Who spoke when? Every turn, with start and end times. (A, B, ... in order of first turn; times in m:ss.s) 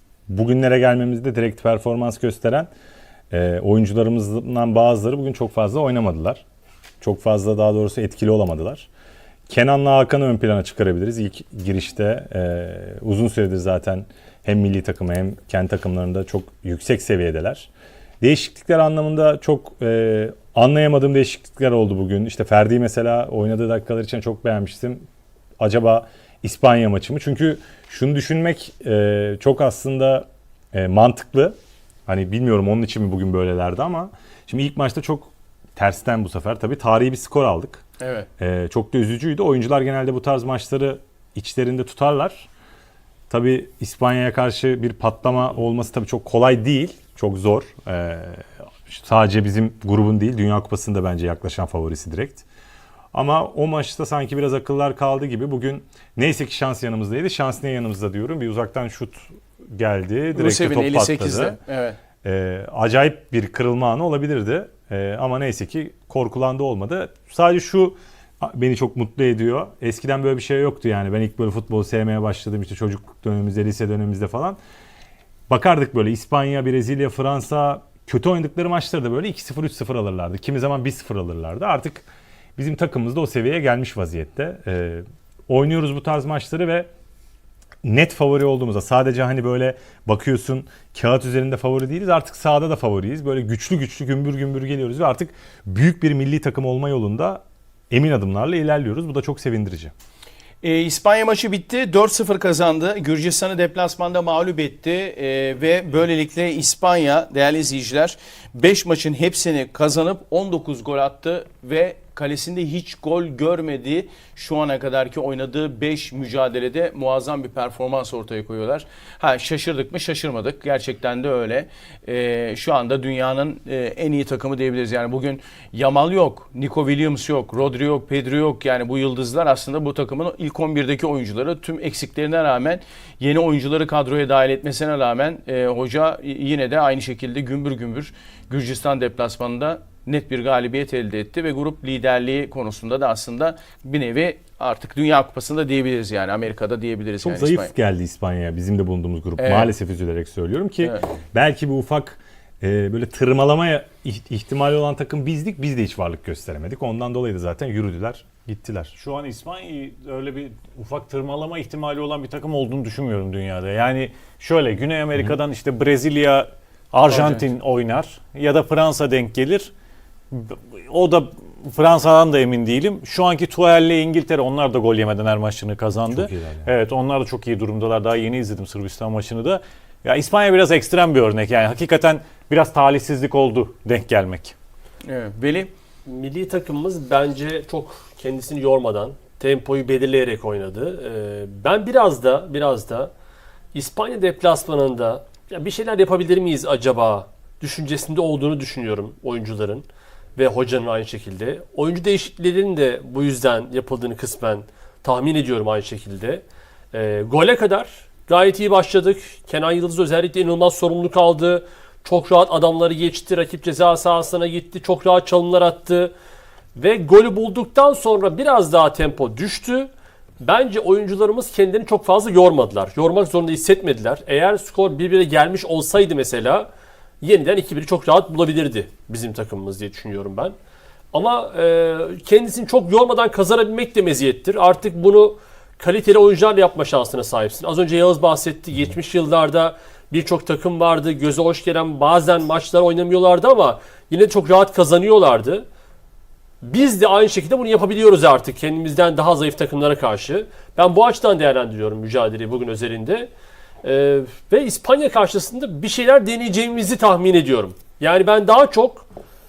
0:00.3-0:02.7 A
0:03.3-0:06.4 A
0:07.0-0:08.9 A
0:09.5-0:17.7 A
0:18.2-0:25.0 A
0:25.6-0:31.5 A
0:32.1-0:37.8 A
0:38.0-0:38.3 B
0:38.4-0:42.5 A
0:43.3-0:52.4 A
0:53.1-1:01.6 A
1:00.3-1:02.0 B
1:02.2-1:14.6 A
1:15.5-1:26.9 A
1:27.8-1:39.9 A
1:40.6-2:27.7 B
2:27.2-2:38.9 A
2:29.4-2:29.7 B
2:39.0-2:49.7 C
2:47.1-2:47.4 B
2:50.3-3:04.5 C
2:56.1-2:56.7 A
3:05.0-3:05.7 B
3:06.0-3:13.1 D
3:13.7-3:36.1 D
3:36.7-3:46.7 D
3:47.2-3:50.5 D
3:51.1-4:05.6 D
4:06.6-4:13.3 D
4:13.8-4:19.1 D